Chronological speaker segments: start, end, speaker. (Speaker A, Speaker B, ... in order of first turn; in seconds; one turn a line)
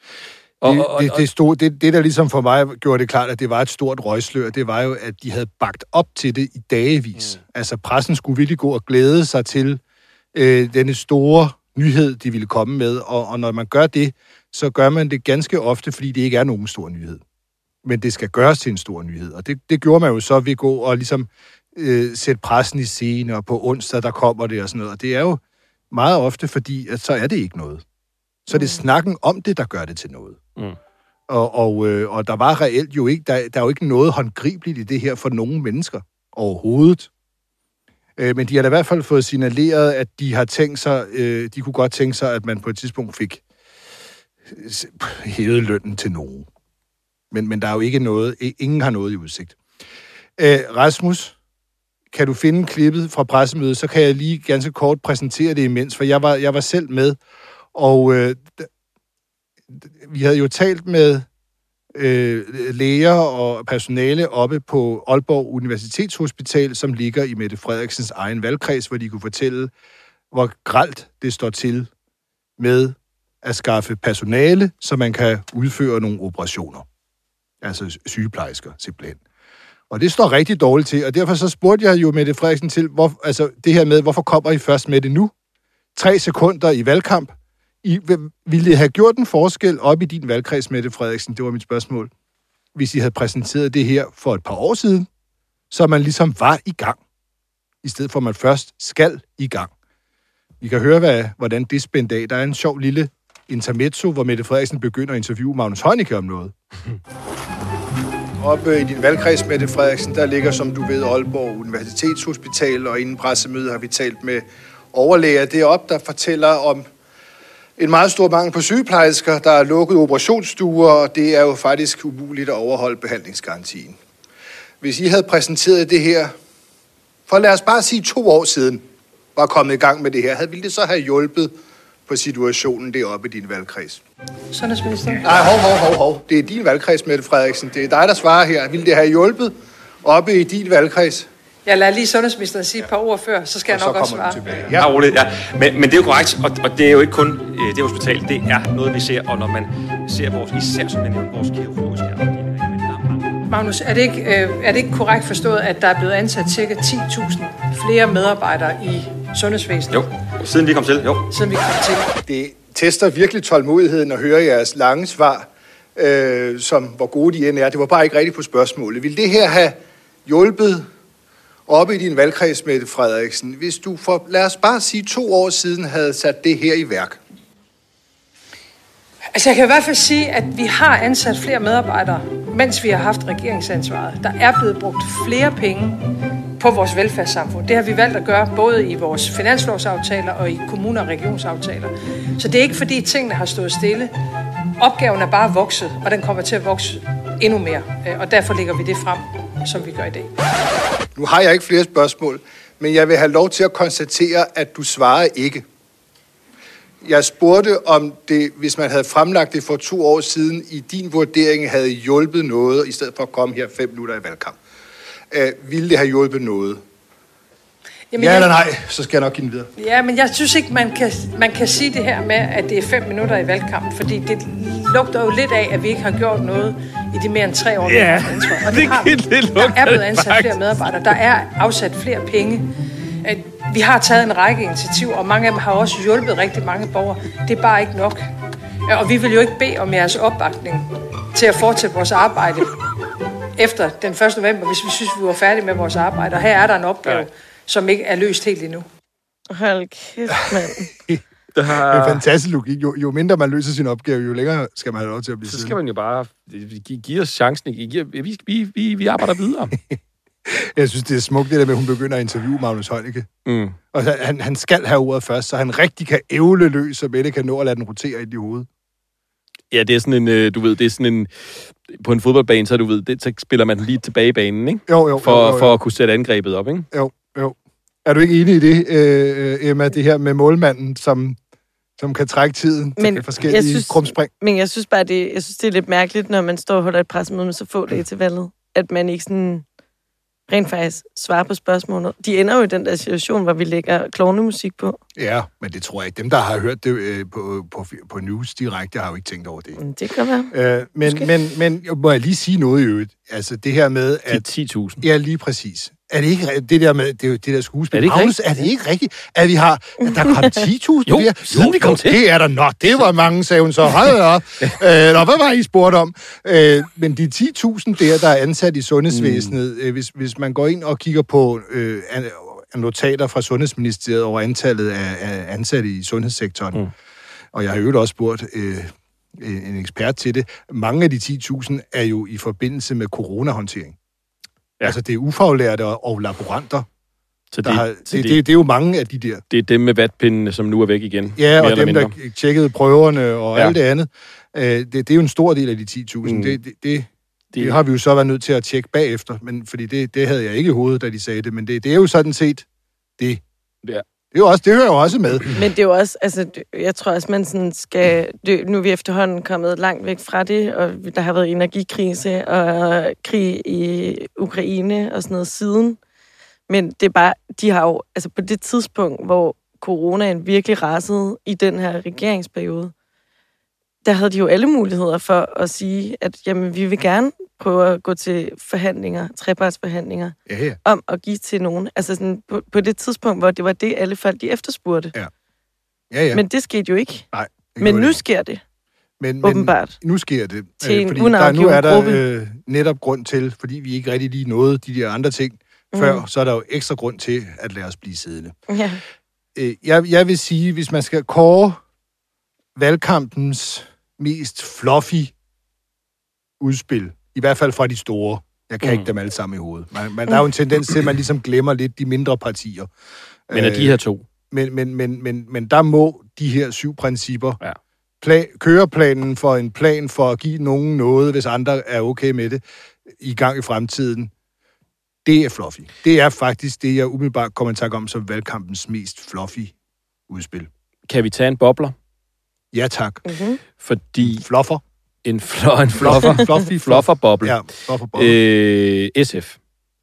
Speaker A: 0.6-1.2
Speaker B: 0.6-9.8
Speaker B: 10.3-17.2
Speaker B: 17.8-25.4
Speaker B: 25.9-27.8
Speaker B: 28.5-30.4
Speaker C: 28.5-28.8
Speaker B: 31.3-37.1
Speaker B: 38.2-43.4
Speaker B: 44.5-46.5
Speaker B: 47.3-49.6
Speaker B: 50.4-51.3
Speaker B: 52.1-57.2
Speaker B: 57.8-58.7
Speaker B: 60.0-61.3
Speaker B: 62.0-69.7
Speaker B: 70.3-71.9
Speaker B: 72.6-76.8
Speaker B: 77.6-79.2
Speaker B: 79.9-85.3
Speaker B: 86.0-87.3
Speaker B: 87.8-92.1
Speaker B: 92.8-95.1
Speaker B: 95.7-97.0
Speaker B: 97.8-99.7
Speaker B: 100.6-106.5
Speaker B: 108.4-116.9
Speaker B: 117.8-124.0
Speaker B: 124.8-126.3
Speaker B: 127.3-128.8
Speaker B: 129.4-131.5
Speaker B: 132.1-134.0
Speaker D: 134.5-135.3
Speaker B: 135.2-141.3
Speaker D: 141.7-144.4
Speaker B: 143.7-144.9
Speaker E: 144.8-153.4
Speaker D: 153.5-160.1
Speaker E: 159.9-161.3
Speaker D: 161.3-162.1
Speaker B: 162.2-170.9
Speaker B: 171.7-177.2
Speaker D: 179.3-186.0
Speaker D: 186.6-194.1
Speaker D: 194.8-200.3
Speaker B: 201.2-205.6
Speaker B: 207.0-214.6
Speaker B: 215.3-216.8
Speaker D: 218.1-218.6
Speaker B: 218.2-219.7
Speaker D: 219.8-232.7
Speaker A: 227.8-230.6
Speaker D: 233.2-238.2
Speaker D: 238.9-242.7
Speaker D: 243.6-248.8
Speaker C: 249.5-250.9
Speaker A: 251.6-252.2
Speaker B: 251.9-255.8
Speaker A: 255.4-259.7
Speaker B: 259.9-263.3
Speaker A: 263.5-263.8
Speaker B: 263.9-268.7
Speaker A: 269.7-276.9
Speaker B: 274.9-275.8
Speaker B: 276.9-281.4
Speaker B: 282.0-284.3
Speaker C: 283.0-289.6
Speaker C: 290.5-295.0
Speaker B: 295.2-299.8
Speaker C: 299.8-300.5
Speaker B: 300.5-304.4
Speaker A: 304.3-305.1
Speaker B: 305.0-326.8
Speaker A: 307.9-308.6
Speaker A: 311.1-312.2
Speaker A: 319.1-319.6
Speaker B: 327.5-333.9
Speaker B: 334.8-336.9
Speaker A: 337.5-338.4
Speaker B: 337.6-339.4
Speaker A: 339.5-342.1
Speaker B: 341.4-352.7
Speaker A: 346.2-346.6
Speaker A: 347.5-347.8
Speaker B: 354.3-355.5
Speaker C: 355.5-366.0
Speaker C: 366.7-372.9
Speaker C: 374.0-385.1
Speaker B: 380.5-380.8
Speaker B: 386.1-386.4
Speaker C: 386.3-387.3
Speaker B: 387.3-388.2
Speaker C: 387.8-388.6
Speaker B: 389.2-398.6
Speaker C: 389.4-390.0
Speaker C: 390.8-392.2
Speaker C: 395.9-396.2
Speaker C: 398.7-399.0
Speaker B: 399.6-401.8
Speaker B: 402.8-405.3
Speaker B: 406.6-412.9
Speaker B: 413.5-414.0
Speaker A: 413.5-414.3
Speaker B: 414.5-417.6
Speaker B: 418.2-422.6
Speaker B: 423.2-424.3
Speaker B: 425.2-429.7
Speaker B: 430.3-430.7
Speaker A: 431.1-431.9
Speaker B: 432.7-433.2
Speaker C: 433.3-433.6
Speaker A: 433.8-434.4
Speaker B: 434.2-434.8
Speaker A: 435.2-437.6
Speaker B: 436.0-438.4
Speaker A: 438.1-439.6